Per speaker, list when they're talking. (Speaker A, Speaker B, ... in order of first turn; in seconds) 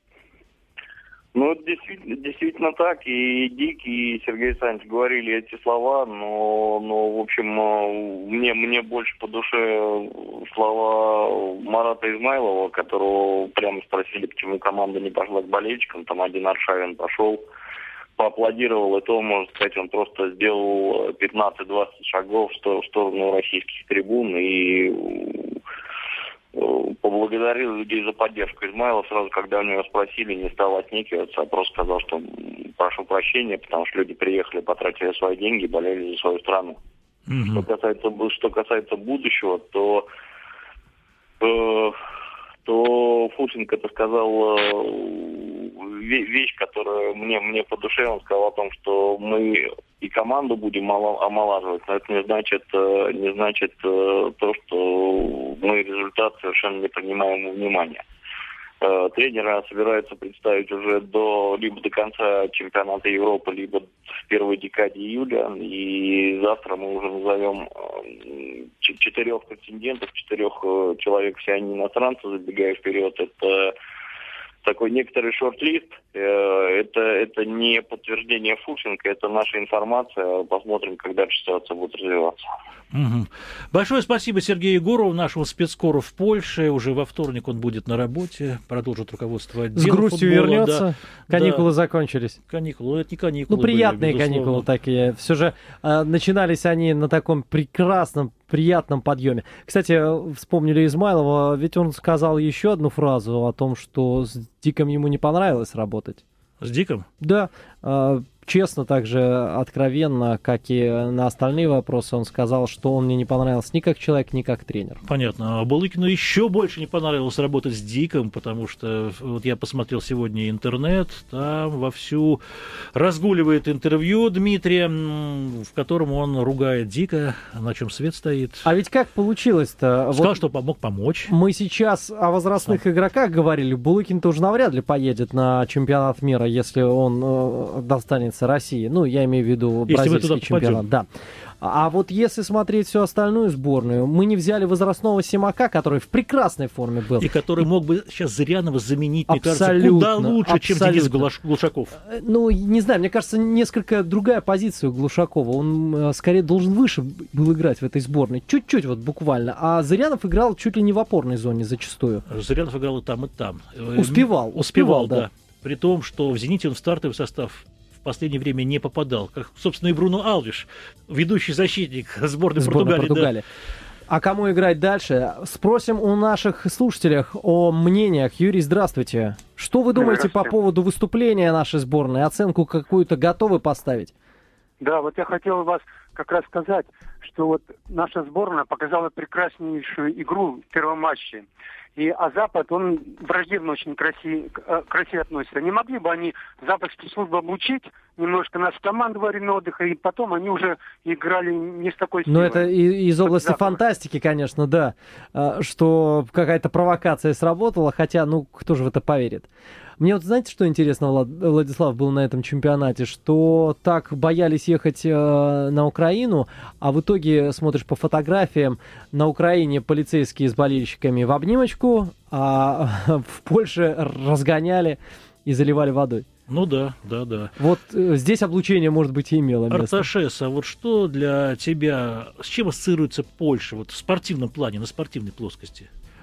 Speaker A: 1.3-17.4, 18.2-25.6, 26.5-36.8, 37.5-40.0, 41.4-42.0, 42.6-58.0, 58.8-73.7, 74.6-82.4
Speaker B: 37.3-37.6, 82.9-91.7, 92.5-94.7, 106.6-107.0, 115.0-122.4, 122.9-128.7, 130.1-131.3, 139.9-140.8, 147.2-152.0, 162.3-173.3, 226.5-227.6, 229.7-235.9
Speaker C: 89.7-92.4, 93.5-106.2, 107.2-115.0, 128.6-130.4, 131.3-141.1, 141.6-147.3, 149.3-151.3, 152.0-162.2, 163.9-165.2, 172.6-173.4, 174.1-184.1, 202.2-209.5, 210.0-226.3, 227.6-230.1
Speaker D: 179.9-180.5, 184.8-203.8